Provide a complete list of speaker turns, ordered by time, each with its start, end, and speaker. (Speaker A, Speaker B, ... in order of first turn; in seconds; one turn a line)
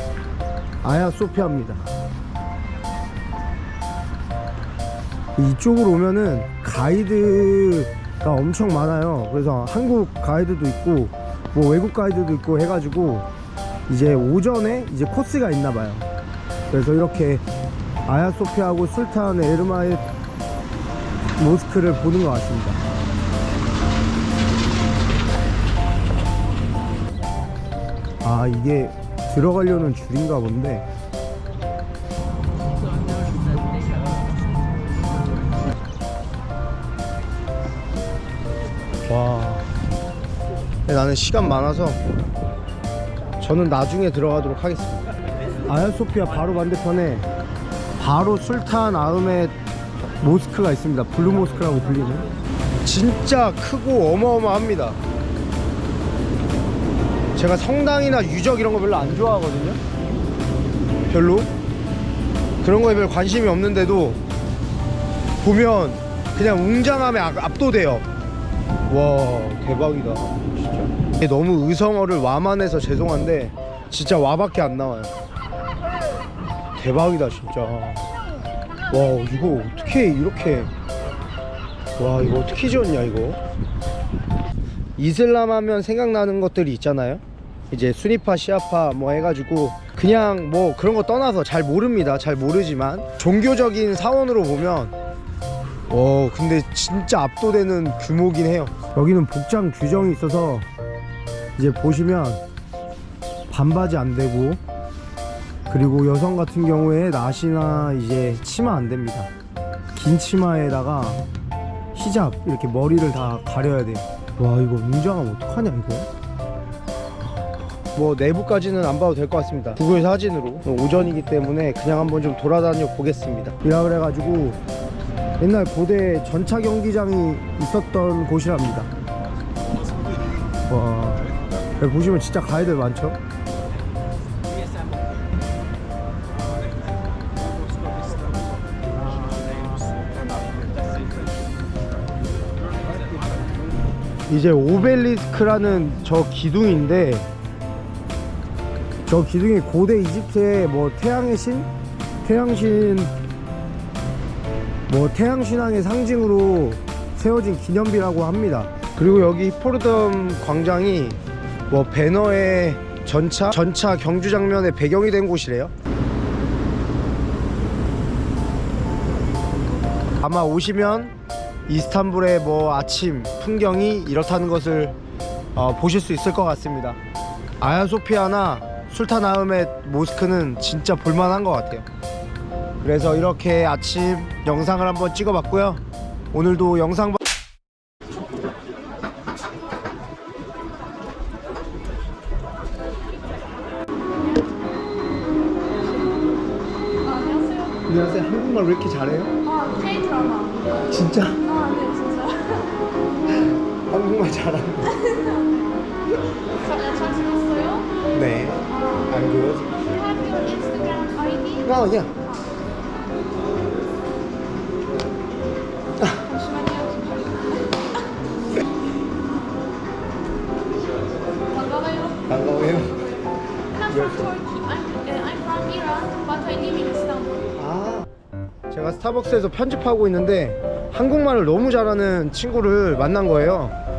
Speaker A: 0.8-1.9
Speaker A: 5.4-13.2
Speaker A: 13.9-16.1
Speaker A: 16.7-17.4
Speaker A: 18.1-20.0
Speaker A: 21.4-22.8
Speaker A: 28.2-30.9
Speaker A: 39.1-39.7
Speaker A: 40.9-42.0
Speaker A: 43.4-45.0
Speaker A: 45.6-47.3
Speaker A: 48.0-49.5
Speaker A: 50.2-52.2
Speaker A: 52.8-55.0
Speaker A: 57.4-59.8
Speaker A: 61.1-61.5
Speaker A: 62.6-64.2
Speaker A: 65.4-68.1
Speaker A: 68.9-75.1
Speaker A: 76.8-78.1
Speaker A: 78.9-80.7
Speaker A: 82.0-83.4
Speaker A: 85.0-94.9
Speaker A: 95.9-100.7
Speaker A: 101.6-102.4
Speaker A: 103.5-104.6
Speaker A: 105.7-109.3
Speaker A: 109.9-111.2
Speaker A: 111.9-116.1
Speaker A: 117.9-124.6
Speaker A: 125.4-128.9
Speaker A: 130.7-131.2
Speaker A: 131.8-133.2
Speaker A: 144.3-147.3
Speaker A: 149.1-151.7
Speaker A: 152.2-153.1
Speaker A: 154.9-165.7
Speaker A: 170.2-171.1
Speaker A: 171.7-174.9
Speaker A: 175.5-177.0
Speaker A: 177.6-181.9
Speaker A: 182.8-185.8
Speaker A: 186.3-187.2
Speaker B: 197.0-197.8
Speaker A: 197.8-199.3
Speaker B: 199.4-200.7
Speaker A: 200.9-201.5
Speaker B: 201.4-202.8
Speaker A: 203.4-205.1
Speaker B: 206.6-207.9
Speaker A: 208.1-209.7
Speaker B: 208.7-209.1
Speaker B: 209.9-211.7
Speaker A: 211.6-212.1
Speaker B: 216.2-217.9
Speaker B: 221.4-222.2
Speaker A: 222.3-223.0
Speaker B: 223.7-227.5
Speaker A: 223.8-224.4
Speaker A: 227.6-228.1
Speaker A: 228.7-233.8